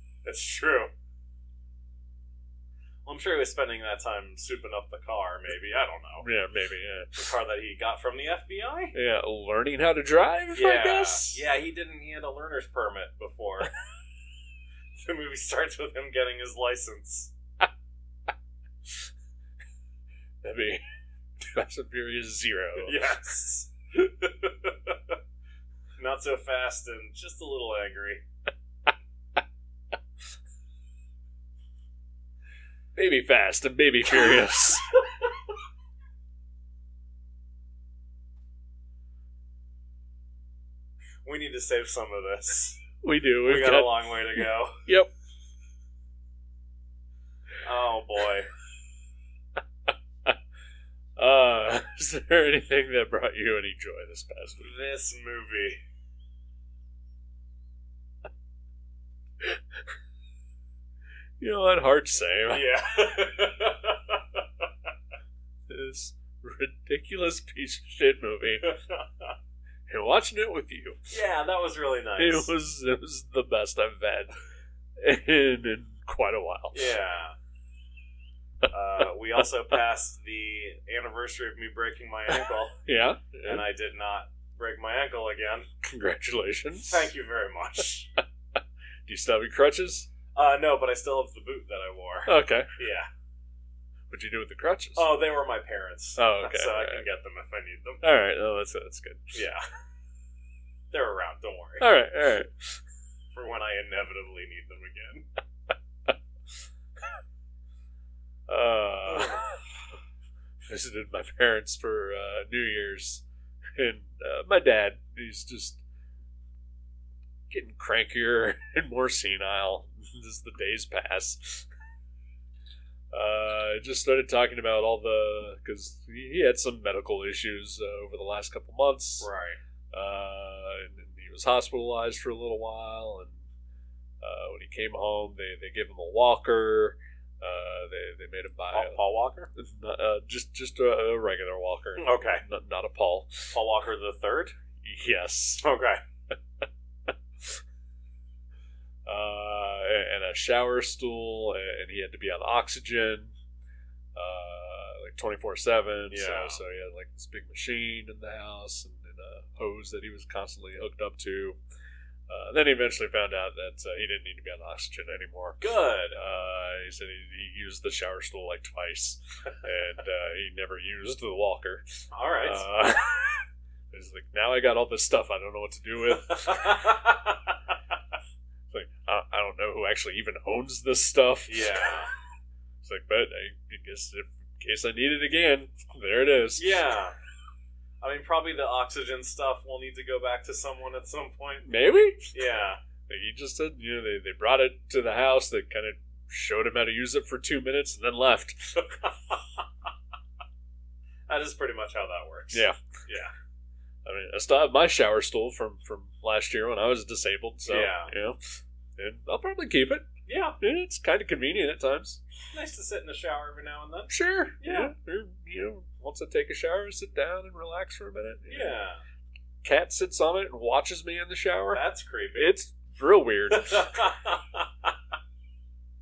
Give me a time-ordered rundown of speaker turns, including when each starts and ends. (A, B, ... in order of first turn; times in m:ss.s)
0:00.2-0:00.9 A
0:03.0-0:06.2 A
0:06.2-0:07.3 B
0:07.1-0:08.9 A
0:08.9-0:11.4 B
0:10.5-0:13.7 A
0:15.0-0:17.3 A
0:20.4-0:20.8 B
0:21.4-0:23.0 B
0:22.8-0:25.1 A
0:26.0-0:28.2 A
0:32.9-0:34.9 B
0:41.2-0:42.8 A
0:43.0-0:43.9 B
0:43.4-0:44.8 A
0:44.8-0:45.1 B
0:47.6-0:48.5 A
0:51.2-0:54.7 B
0:54.6-0:55.8 A
1:01.4-1:02.7 B
1:02.5-1:04.2 A
1:05.7-1:08.7 B
1:08.6-1:09.3 A
1:09.9-1:11.0 B
1:11.1-1:12.5 A
1:12.2-1:14.3 B
1:15.0-1:16.9 B
1:16.7-1:17.3 A
1:18.7-1:22.8 A
1:22.8-1:23.6 B
1:23.4-1:25.7 A
1:25.8-1:27.1 B
1:26.9-1:28.2 A
1:29.0-1:30.1 B
1:30.3-1:33.1 A
1:32.2-1:32.7 B
1:34.1-1:35.1 B
1:35.0-1:38.0 A
1:36.2-1:37.0 B
1:38.0-1:39.3 B
1:39.3-1:39.6 A
1:40.9-1:41.9 A
1:41.8-1:42.8 B
1:43.3-1:45.2 A
1:48.5-1:49.6 B
1:50.7-1:53.2 B
1:53.8-1:55.8 B
1:57.5-2:01.7 B
2:03.1-2:09.3 B
2:09.2-2:09.6 A
2:09.9-2:13.4 B
2:14.2-2:19.0 B
2:18.7-2:19.5 A
2:19.5-2:23.5 B
2:22.0-2:22.4 A
2:23.5-2:24.5 A
2:24.8-2:25.6 B
2:25.6-2:26.0 A
2:29.0-2:33.3 B
2:34.1-2:41.6 B
2:36.1-2:36.6 A
2:42.3-2:57.0 B
2:45.6-2:46.2 A
2:52.1-2:52.6 A
2:56.1-2:57.5 A
2:58.7-3:01.9 B
3:01.5-3:02.1 A
3:02.8-3:06.8 B
3:06.6-3:07.1 A
3:08.0-3:11.7 A
3:11.6-3:12.3 B
3:12.3-3:12.8 A
3:13.1-3:18.8 B
3:18.8-3:19.6 A
3:21.3-3:23.3 A
3:24.0-3:30.1 B
3:27.6-3:28.1 A
3:30.3-3:30.6 A
3:30.6-3:32.2 B
3:32.5-3:34.9 A
3:34.1-3:38.7 B
3:38.5-3:39.0 A
3:39.6-3:41.8 B
3:41.7-3:42.5 A
3:42.4-3:43.9 B
3:43.5-3:44.9 A